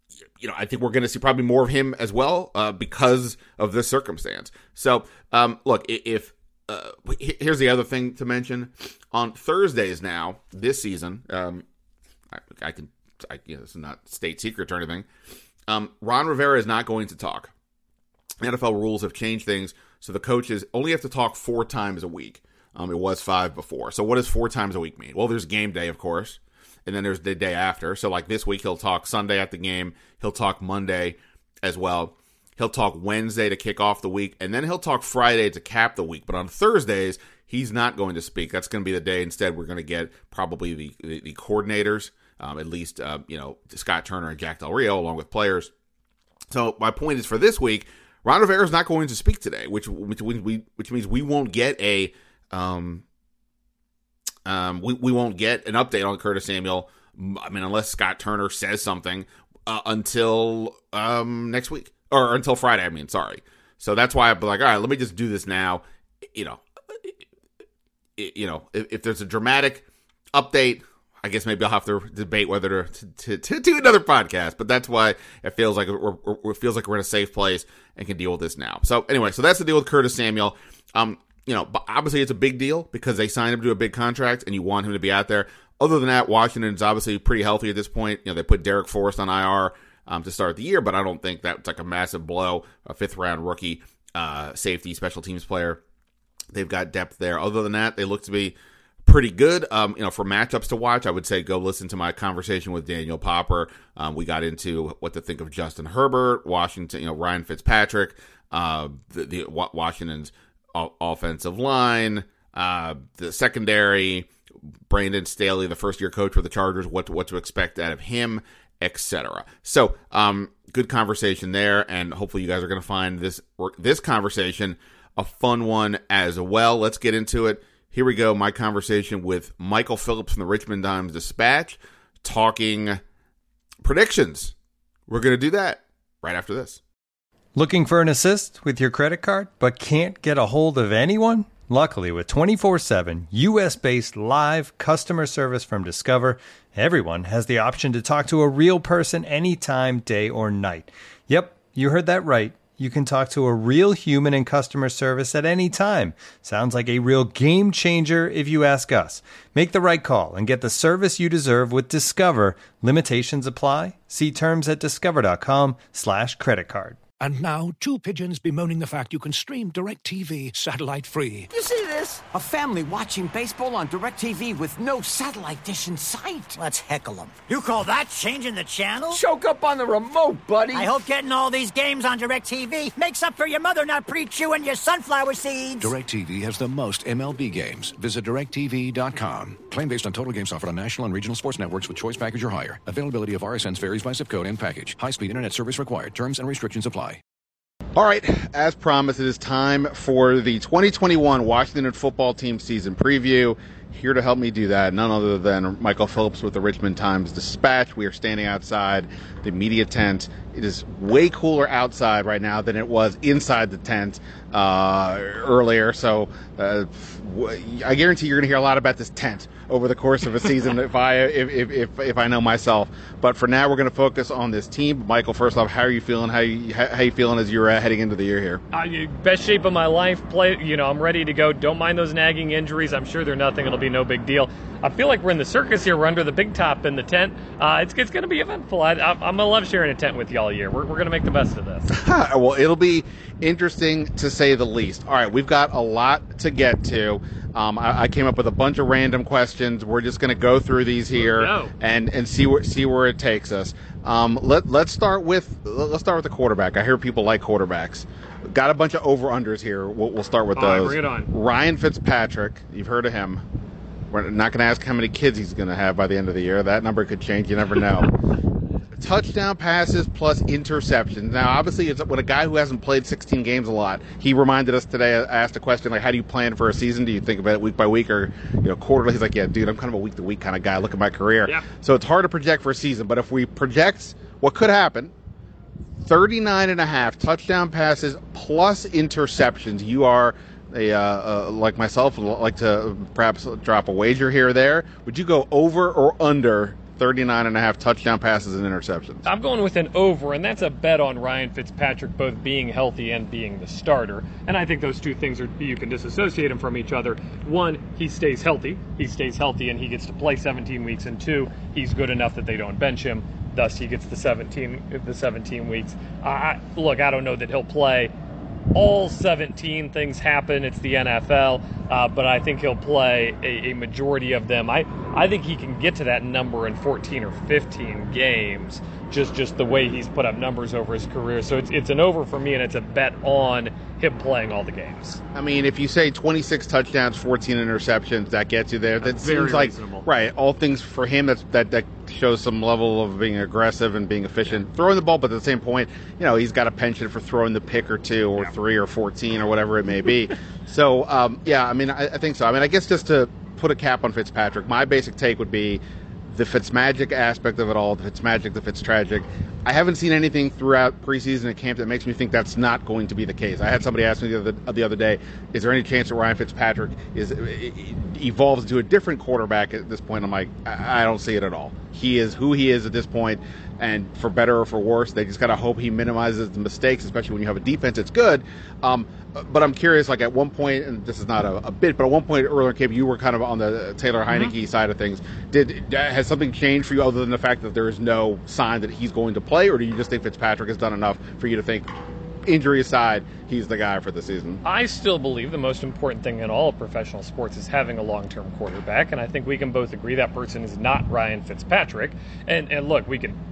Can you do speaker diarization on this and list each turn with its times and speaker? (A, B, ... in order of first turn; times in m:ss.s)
0:00.4-0:11.6 A
0:12.3-0:15.1 A
0:15.7-0:17.5 A
0:18.4-0:45.7 A
0:46.5-0:53.0 A
0:54.5-1:07.2 A
1:08.2-1:35.8 A
1:36.5-1:54.3 A
1:54.9-2:13.0 A
2:13.8-2:14.5 A
2:15.1-2:16.8 A
2:17.6-2:47.0 B
2:47.2-2:51.5 C
2:51.5-2:56.6 D
2:56.6-2:59.2 E
2:59.1-3:00.9 D
3:00.7-3:05.9 E
3:05.8-3:17.2 C
3:18.0-3:48.6 A
3:48.7-4:01.9 F
4:01.9-4:23.4 A
4:11.2-4:11.7 F
4:20.6-4:21.3 F
4:24.1-4:28.1 A
4:29.0-4:45.1 A
4:46.0-4:59.3 A
4:59.2-5:18.1 F
5:18.7-5:35.2 F
5:35.3-6:31.9 A
5:39.0-5:40.1 F
6:32.4-6:34.6 A
6:34.6-6:43.4 F